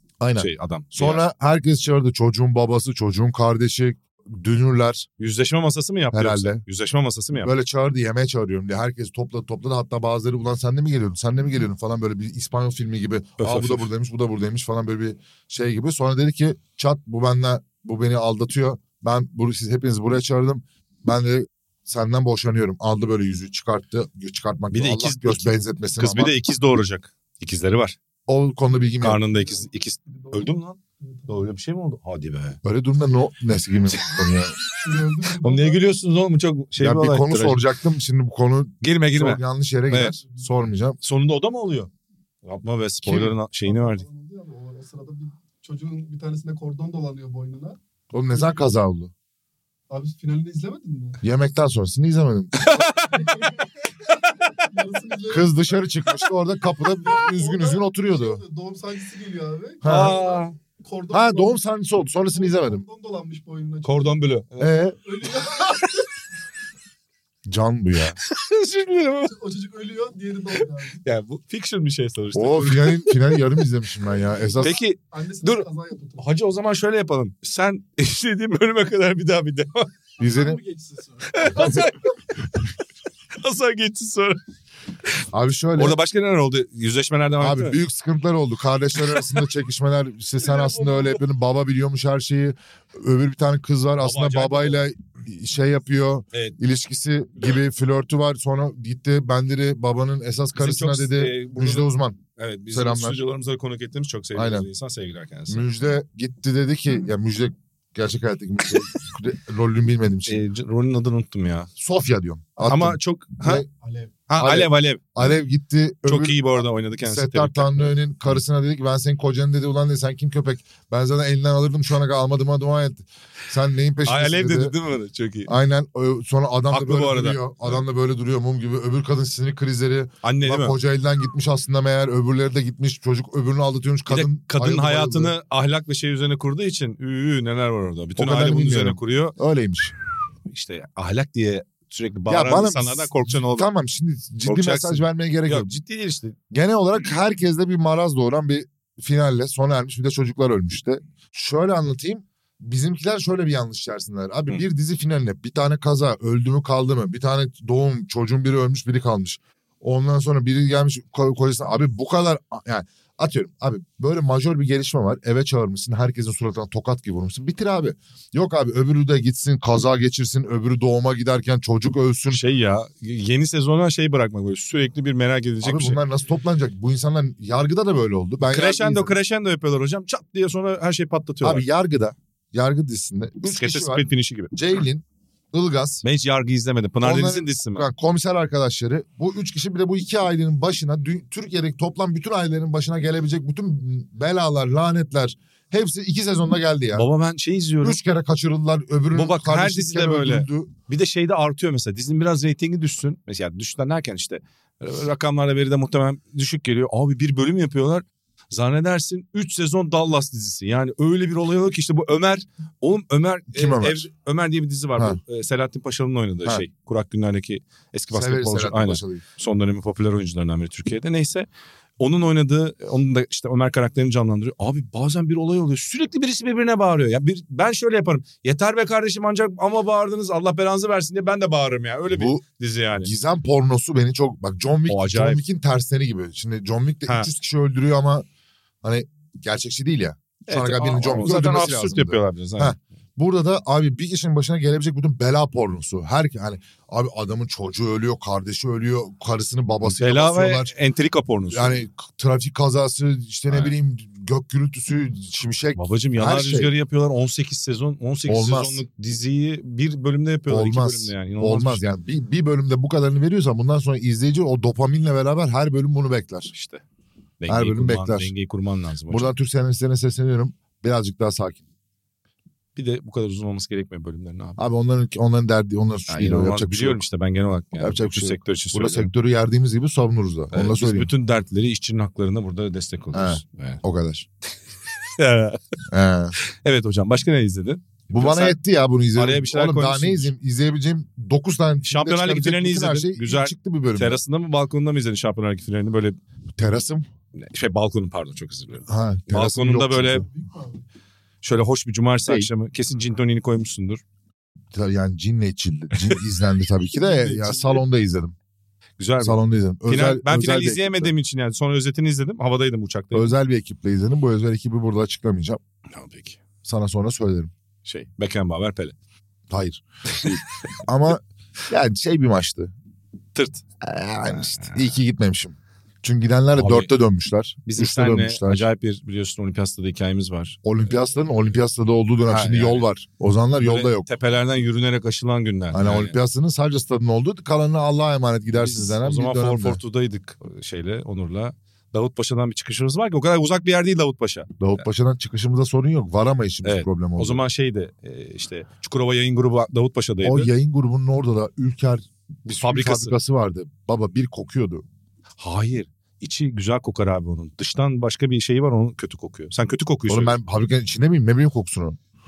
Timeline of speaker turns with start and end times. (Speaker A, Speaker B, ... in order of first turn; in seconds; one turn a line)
Speaker A: 0.2-5.1
Speaker B: 0.4-1.2
Speaker B: 5.2-7.5
Speaker A: 6.1-6.6
Speaker A: 7.4-26.4
Speaker B: 13.4-13.9
Speaker B: 24.7-28.0
Speaker A: 28.3-29.2
Speaker B: 29.0-32.6
Speaker C: 29.1-31.5
Speaker A: 32.6-34.5
Speaker C: 34.7-35.9
Speaker B: 35.4-37.6
Speaker A: 36.8-41.0
Speaker B: 38.8-40.2
Speaker C: 40.0-40.5
Speaker B: 41.0-41.9
Speaker B: 42.4-44.0
Speaker A: 43.0-43.3
Speaker C: 43.6-47.8
Speaker A: 48.1-49.1
Speaker C: 48.3-48.7
Speaker C: 49.9-51.2
Speaker A: 51.2-52.6
Speaker B: 52.6-53.5
Speaker C: 52.6-56.2
Speaker A: 55.3-58.4
Speaker C: 56.8-64.2
Speaker A: 59.8-60.2
Speaker B: 59.8-60.5
Speaker A: 61.1-62.9
Speaker B: 63.8-64.8
Speaker A: 64.6-65.0
Speaker C: 65.0-66.1
Speaker A: 67.5-68.2
Speaker B: 68.2-69.3
Speaker C: 69.3-71.0
Speaker B: 71.0-73.4
Speaker A: 72.3-74.8
Speaker C: 74.5-76.3
Speaker B: 74.6-75.7
Speaker B: 76.2-80.0
Speaker A: 80.2-80.6
Speaker C: 80.2-81.8
Speaker B: 81.3-82.2
Speaker B: 83.4-84.4
Speaker A: 85.3-86.0
Speaker B: 85.8-87.8
Speaker A: 87.4-102.2
Speaker B: 89.1-89.3
Speaker B: 94.0-94.8
Speaker B: 100.6-105.7
Speaker A: 102.7-103.2
Speaker A: 104.3-104.7
Speaker A: 105.5-110.4
Speaker B: 110.3-111.7
Speaker A: 111.8-113.7
Speaker B: 112.6-113.7
Speaker C: 113.8-114.1
Speaker B: 114.3-115.3
Speaker A: 114.4-116.5
Speaker B: 116.1-117.9
Speaker A: 117.0-124.7
Speaker B: 124.0-125.5
Speaker A: 125.5-135.3
Speaker B: 126.7-127.8
Speaker B: 130.2-130.8
Speaker B: 134.1-139.4
Speaker A: 138.2-139.9
Speaker B: 140.5-143.7
Speaker A: 142.3-145.7
Speaker B: 144.4-146.4
Speaker A: 146.5-172.4
Speaker B: 172.3-176.0
Speaker A: 175.6-179.1
Speaker B: 178.5-181.7
Speaker A: 181.4-186.0
Speaker B: 183.5-184.5
Speaker B: 186.0-187.9
Speaker A: 187.0-197.1
Speaker B: 196.9-198.0
Speaker A: 197.8-200.7
Speaker B: 199.1-221.5
Speaker A: 213.5-214.1
Speaker A: 218.1-219.2
Speaker B: 222.0-233.1
Speaker A: 232.1-232.4
Speaker A: 233.0-238.3
Speaker B: 234.9-235.4
Speaker A: 238.8-250.7
Speaker B: 240.5-242.8
Speaker B: 249.9-251.8
Speaker A: 251.5-256.7
Speaker B: 253.5-253.8
Speaker B: 255.8-261.8
Speaker A: 258.3-258.8
Speaker A: 260.5-266.5
Speaker B: 266.5-266.8
Speaker B: 267.4-269.3
Speaker A: 267.5-268.3
Speaker A: 269.1-271.6
Speaker B: 272.8-274.6
Speaker A: 274.6-277.0
Speaker B: 276.1-279.1
Speaker A: 277.8-281.1
Speaker B: 280.5-283.8
Speaker A: 283.1-284.3
Speaker B: 285.1-285.6
Speaker A: 285.9-286.4
Speaker B: 286.4-288.6
Speaker A: 288.1-294.2
Speaker B: 289.1-290.3
Speaker B: 291.9-296.2
Speaker A: 296.6-297.1
Speaker B: 297.4-300.2
Speaker A: 298.9-300.2
Speaker C: 300.1-300.8
Speaker B: 301.4-304.0
Speaker A: 304.7-308.4
Speaker C: 307.1-307.8
Speaker B: 309.0-313.3
Speaker A: 309.2-311.1
Speaker A: 313.1-315.6
Speaker B: 315.9-316.4
Speaker A: 316.6-317.5
Speaker B: 317.9-318.9
Speaker A: 319.5-322.7
Speaker B: 320.1-320.4
Speaker B: 323.4-323.6
Speaker A: 323.8-328.7
Speaker B: 324.3-324.8
Speaker B: 326.5-326.9
Speaker B: 327.7-330.6
Speaker A: 330.6-334.1
Speaker B: 332.3-332.9
Speaker B: 333.6-336.2
Speaker A: 335.7-339.8
Speaker B: 338.5-344.5
Speaker A: 344.6-347.4
Speaker B: 346.6-350.5
Speaker A: 350.2-354.9
Speaker B: 352.5-353.1
Speaker B: 355.4-360.4
Speaker A: 360.1-362.0